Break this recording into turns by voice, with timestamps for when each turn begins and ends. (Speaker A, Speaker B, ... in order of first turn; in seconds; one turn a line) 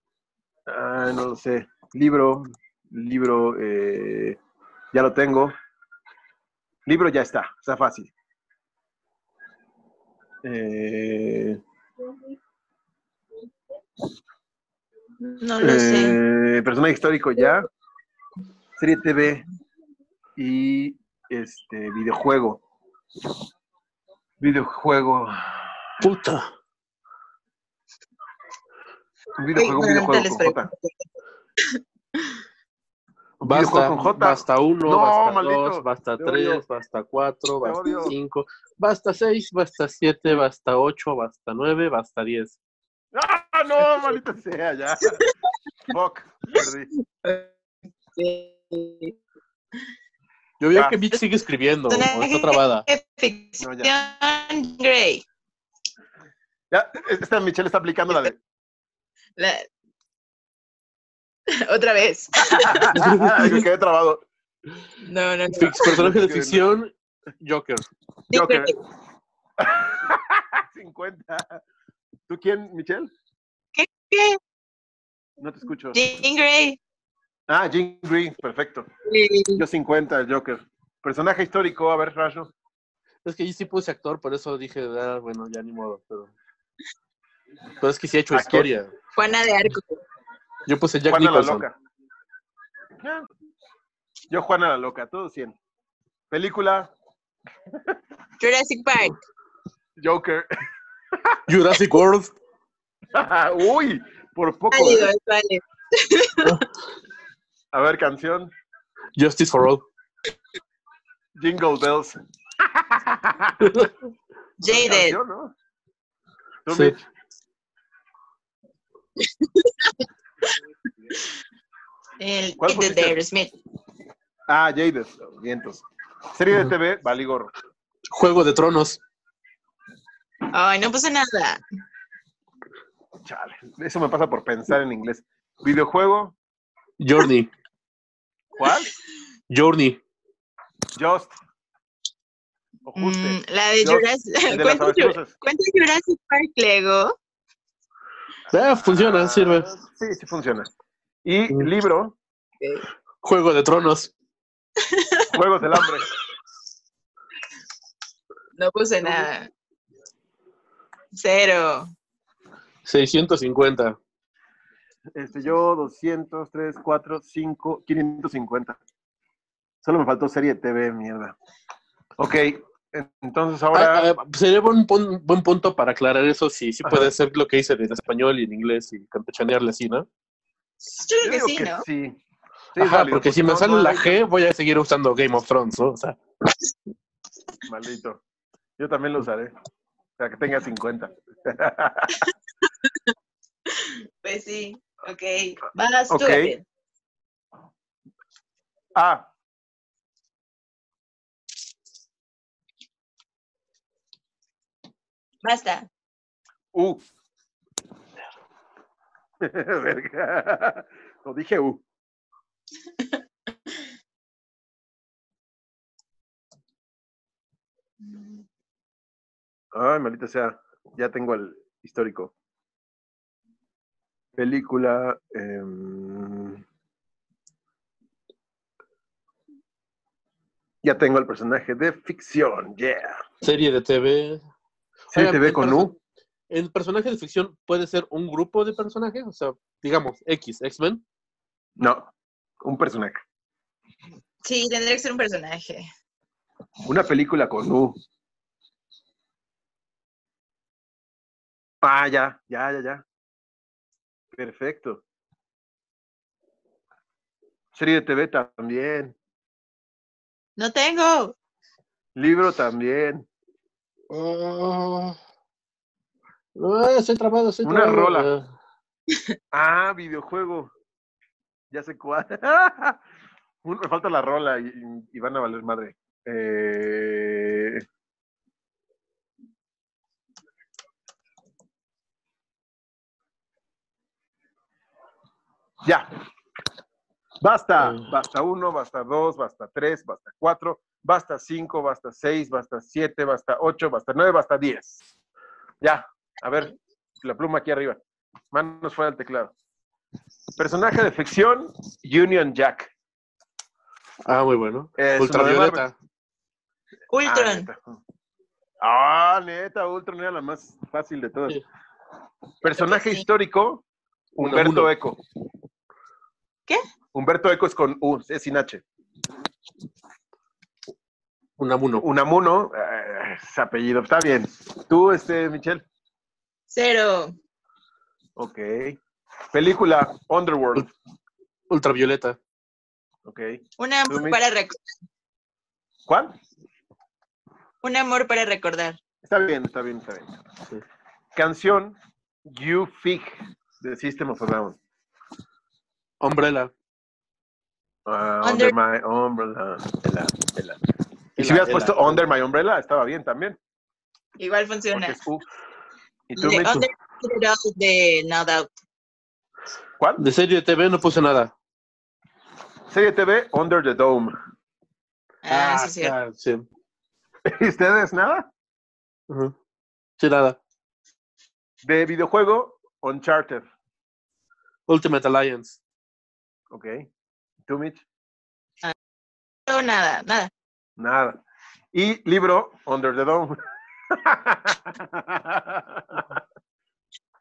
Speaker A: 0.7-4.4
Speaker A: 4.9-5.5
Speaker A: 6.9-8.1
Speaker A: 10.4-11.6
Speaker B: 15.2-16.2
Speaker A: 15.6-17.7
Speaker A: 18.8-19.5
Speaker A: 20.4-22.6
Speaker A: 24.4-25.7
Speaker C: 26.0-26.5
Speaker A: 29.4-30.7
Speaker B: 29.6-31.1
Speaker A: 33.4-36.6
Speaker C: 33.4-42.6
Speaker A: 37.6-38.2
Speaker A: 43.1-45.2
Speaker A: 45.9-46.9
Speaker B: 47.2-47.5
Speaker B: 48.1-49.2
Speaker C: 50.6-52.9
Speaker B: 51.9-55.2
Speaker A: 53.6-53.9
Speaker A: 56.7-58.4
Speaker B: 59.4-59.7
Speaker B: 61.5-63.5
Speaker A: 62.4-64.2
Speaker C: 63.0-63.2
Speaker B: 65.0-65.9
Speaker C: 65.5-66.9
Speaker A: 65.8-66.7
Speaker C: 67.4-67.9
Speaker A: 68.3-68.7
Speaker B: 68.3-68.8
Speaker A: 69.6-71.6
Speaker A: 72.3-73.1
Speaker B: 73.8-74.4
Speaker A: 75.4-76.2
Speaker B: 75.9-76.8
Speaker A: 77.5-78.9
Speaker B: 79.0-79.6
Speaker A: 79.6-82.5
Speaker C: 83.2-86.3
Speaker C: 87.8-88.9
Speaker A: 88.3-88.7
Speaker B: 89.2-90.0
Speaker C: 90.7-91.7
Speaker A: 91.1-91.7
Speaker A: 93.0-93.3
Speaker A: 94.3-95.6
Speaker A: 96.3-96.9
Speaker B: 98.4-99.2
Speaker A: 100.0-100.5
Speaker A: 101.2-101.4
Speaker C: 101.5-102.3
Speaker A: 103.1-105.1
Speaker B: 104.7-106.6
Speaker A: 107.7-108.5
Speaker C: 109.2-109.8
Speaker A: 111.4-113.9
Speaker C: 113.6-113.9
Speaker B: 114.6-115.2
Speaker A: 114.6-115.5
Speaker A: 116.7-117.0
Speaker C: 116.7-117.0
Speaker B: 119.4-119.9
Speaker B: 122.2-123.5
Speaker A: 122.6-123.2
Speaker A: 124.5-127.5
Speaker C: 128.1-129.0
Speaker B: 130.5-131.6
Speaker A: 133.2-136.4
Speaker C: 137.0-137.5
Speaker A: 138.6-138.9
Speaker C: 139.5-140.0
Speaker A: 140.9-141.3
Speaker A: 142.8-145.3
Speaker B: 143.0-147.2
Speaker C: 148.5-149.7
Speaker A: 148.8-150.7
Speaker A: 151.2-152.2
Speaker C: 153.2-154.1
Speaker B: 154.8-155.9
Speaker A: 155.3-156.1
Speaker B: 158.6-159.5
Speaker B: 161.2-161.9
Speaker C: 162.8-164.0
Speaker A: 165.2-168.8
Speaker A: 169.8-171.4
Speaker A: 172.2-174.1
Speaker C: 173.7-180.1
Speaker A: 176.8-177.1
Speaker B: 180.8-181.8
Speaker A: 181.2-182.2
Speaker A: 182.7-184.2
Speaker C: 182.8-186.2
Speaker A: 187.6-188.2
Speaker A: 188.8-189.5
Speaker A: 190.2-192.3
Speaker B: 193.7-196.6
Speaker A: 196.1-196.5
Speaker A: 198.9-199.2
Speaker B: 205.4-205.9
Speaker A: 206.7-207.0
Speaker A: 209.4-211.8
Speaker A: 219.7-222.3
Speaker A: 224.4-226.6
Speaker A: 230.8-233.2
Speaker C: 233.4-234.4
Speaker A: 235.1-235.9
Speaker C: 235.1-236.0
Speaker C: 236.5-241.0
Speaker A: 241.8-242.1
Speaker A: 242.6-243.2
Speaker B: 244.4-245.9
Speaker A: 246.9-248.0
Speaker A: 251.8-253.0
Speaker A: 254.3-255.0
Speaker A: 257.7-259.1
Speaker B: 260.6-261.3
Speaker A: 262.2-263.2
Speaker C: 264.1-265.2
Speaker C: 266.6-268.5
Speaker A: 267.6-268.3
Speaker A: 269.5-270.7
Speaker A: 271.7-273.0
Speaker A: 273.6-277.8
Speaker A: 285.8-286.1
Speaker A: 287.4-295.0
Speaker C: 287.8-288.1
Speaker A: 295.8-298.0
Speaker A: 298.5-299.5
Speaker A: 300.6-302.9
Speaker C: 304.2-305.9
Speaker A: 305.0-305.8
Speaker B: 307.1-307.7
Speaker A: 307.2-308.0
Speaker A: 308.8-311.6
Speaker A: 312.6-315.2
Speaker B: 312.8-313.2
Speaker C: 314.4-314.9
Speaker A: 317.1-318.8
Speaker C: 321.6-322.0
Speaker A: 322.0-325.8
Speaker B: 326.7-327.4
Speaker A: 328.4-329.0
Speaker A: 329.5-330.9
Speaker C: 331.7-332.4
Speaker A: 333.2-334.4
Speaker B: 333.8-334.8
Speaker A: 336.1-336.4
Speaker B: 337.8-339.0
Speaker A: 339.2-340.4
Speaker A: 341.3-344.8
Speaker C: 346.2-346.7
Speaker A: 348.1-350.8
Speaker B: 348.4-348.8
Speaker C: 351.4-352.2
Speaker A: 351.4-353.6
Speaker B: 354.4-355.2
Speaker A: 354.9-355.4
Speaker A: 356.3-356.9
Speaker B: 356.4-358.7
Speaker A: 360.0-360.2
Speaker C: 360.2-361.5
Speaker A: 362.9-364.3
Speaker B: 365.4-366.1
Speaker C: 365.5-366.6
Speaker A: 367.5-368.5
Speaker C: 369.3-369.5
Speaker C: 370.2-370.6
Speaker A: 371.8-373.7
Speaker C: 374.9-375.8
Speaker A: 376.7-377.1
Speaker A: 377.7-378.0
Speaker B: 379.7-380.5
Speaker A: 381.0-381.4
Speaker A: 381.9-386.4